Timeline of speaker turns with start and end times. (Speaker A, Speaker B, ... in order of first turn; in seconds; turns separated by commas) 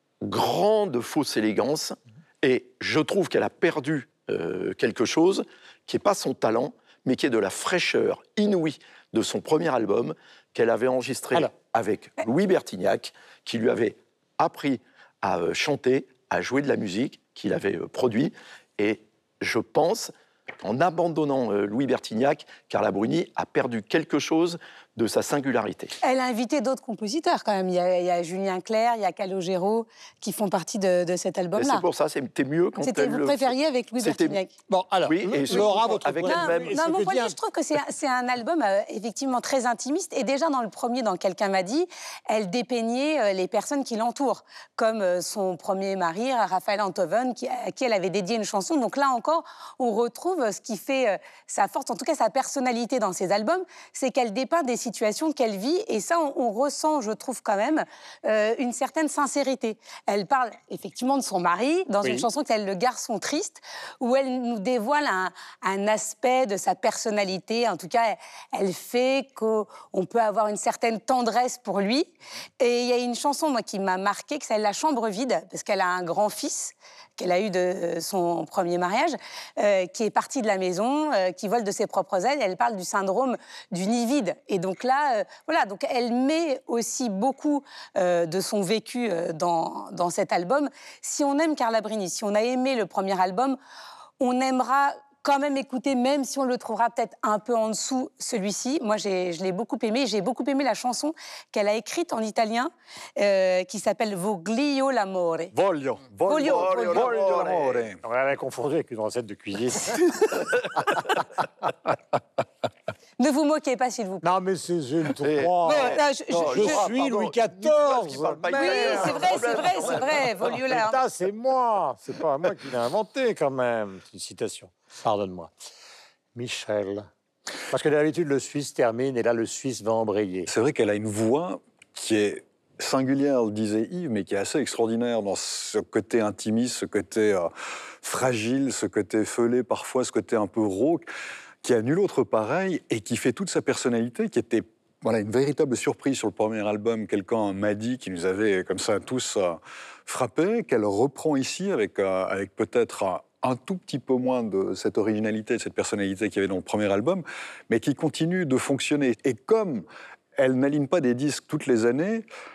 Speaker A: 0.2-25.9, Speaker B: 26.0-31.8, Speaker A: 31.6-34.4, Speaker B: 32.8-34.5, Speaker C: 34.7-37.3, Speaker A: 35.0-37.1, Speaker B: 35.5-93.6, Speaker C: 62.0-62.3, Speaker B: 94.2-105.5, Speaker C: 105.5-105.9, Speaker D: 105.8-108.0, Speaker B: 106.3-106.9, Speaker A: 106.4-107.9, Speaker C: 108.0-110.4, Speaker B: 113.2-114.2, Speaker C: 114.2-120.1, Speaker A: 115.2-120.5, Speaker B: 115.8-116.9, Speaker B: 118.5-121.0, Speaker C: 120.7-125.5, Speaker C: 126.3-127.1, Speaker C: 127.7-130.5, Speaker D: 130.5-137.5, Speaker D: 138.0-141.1, Speaker D: 141.6-162.2